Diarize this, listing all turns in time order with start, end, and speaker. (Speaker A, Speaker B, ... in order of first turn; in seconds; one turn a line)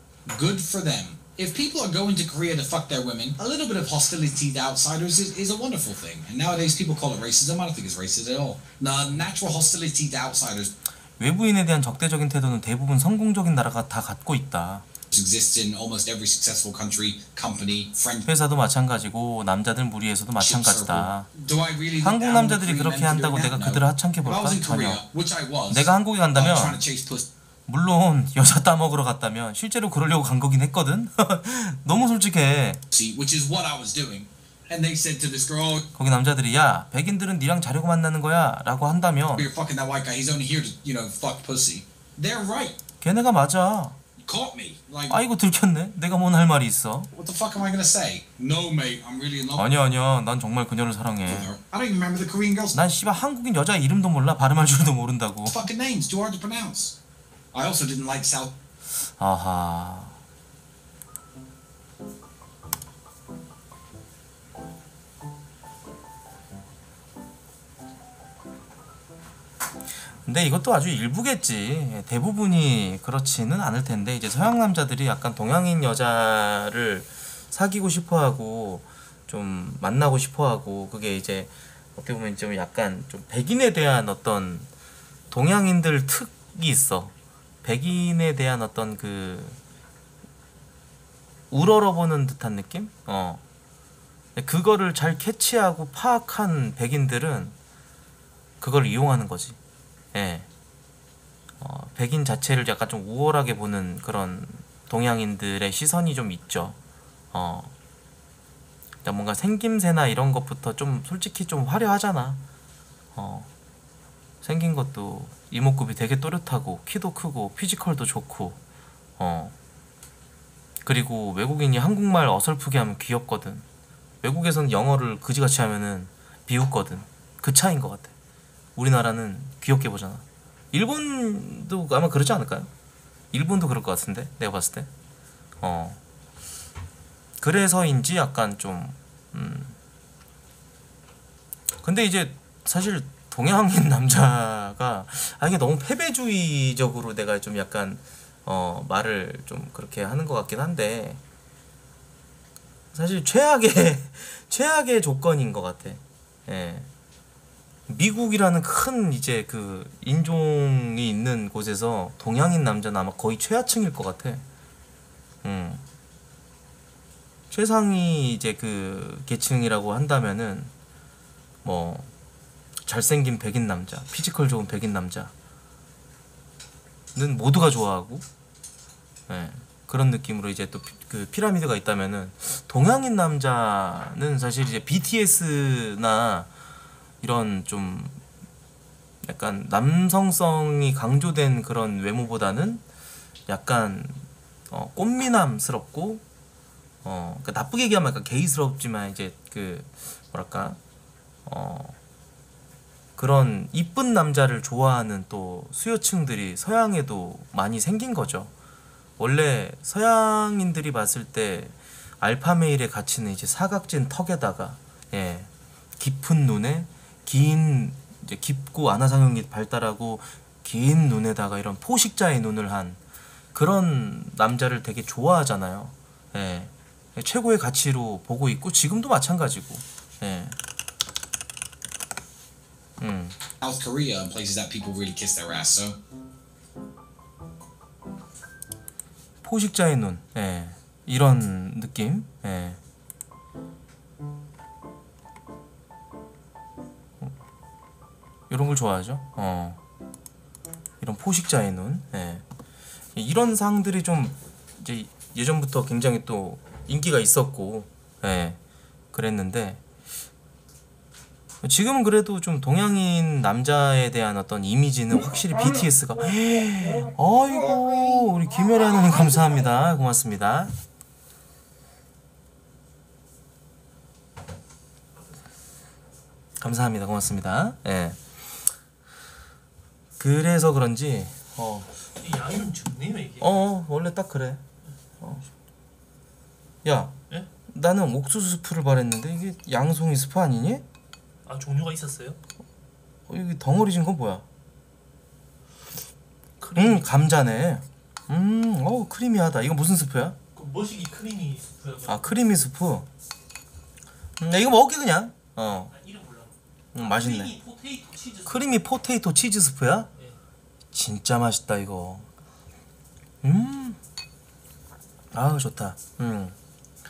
Speaker A: 0.3-10.7
Speaker B: 11.2-14.9
Speaker A: 15.1-18.3
Speaker B: 18.2-21.3
Speaker A: 20.4-27.3
Speaker B: 22.0-25.0
Speaker B: 25.7-26.8
Speaker B: 27.7-32.8
Speaker A: 32.9-35.9
Speaker B: 36.0-39.5
Speaker A: 39.4-42.8
Speaker B: 43.0-44.0
Speaker A: 44.2-45.2
Speaker B: 45.1-47.1
Speaker A: 47.1-49.7
Speaker B: 49.6-51.5
Speaker A: 51.3-52.8
Speaker B: 52.7-55.6
Speaker A: 55.5-57.0
Speaker A: 57.5-58.5
Speaker B: 59.2-60.2
Speaker B: 70.2-84.7
Speaker B: 85.3-87.1
Speaker B: 87.6-89.6
Speaker B: 91.5-93.4
Speaker B: 94.4-97.5
Speaker B: 98.6-99.6
Speaker B: 100.1-100.5
Speaker B: 101.6-106.8
Speaker B: 107.3-107.7
Speaker B: 109.0-112.4
Speaker B: 113.1-113.5
Speaker B: 114.4-118.6
Speaker B: 119.2-119.5
Speaker B: 120.8-123.6
Speaker B: 124.2-128.1
Speaker B: 128.8-132.7
Speaker B: 133.3-134.9
Speaker B: 135.6-136.0
Speaker B: 137.4-139.8
Speaker B: 141.8-151.2
Speaker B: 152.9-156.9
Speaker B: 157.9-164.4
Speaker B: 165.4-165.8
Speaker B: 167.5-170.7
Speaker B: 171.6-172.1
Speaker B: 172.9-175.3
Speaker B: 177.2-178.3
Speaker B: 179.3-186.5
Speaker B: 187.2-188.2
Speaker B: 189.2-192.8
Speaker B: 193.5-196.2
Speaker B: 197.0-200.8
Speaker B: 201.5-201.9
Speaker B: 203.2-208.5
Speaker B: 209.2-223.0
Speaker B: 223.5-230.6
Speaker B: 233.0-233.4
Speaker A: 233.6-236.0
Speaker B: 239.4-242.8
Speaker B: 248.5-249.8
Speaker B: 251.0-252.4
Speaker B: 253.2-258.6
Speaker B: 259.1-259.8
Speaker B: 261.6-270.7
Speaker B: 276.6-278.2
Speaker B: 280.2-281.9
Speaker C: 282.1-283.7
Speaker B: 283.4-284.6
Speaker B: 286.8-287.1
Speaker B: 287.7-290.9
Speaker C: 291.5-292.4
Speaker B: 293.3-294.4
Speaker C: 296.6-297.1
Speaker B: 296.8-300.4
Speaker C: 300.6-302.3
Speaker B: 302.1-303.1
Speaker B: 304.4-305.9
Speaker C: 305.9-308.7
Speaker B: 306.9-307.5
Speaker B: 308.5-310.1
Speaker B: 310.9-312.3
Speaker B: 313.4-314.0
Speaker B: 315.3-316.6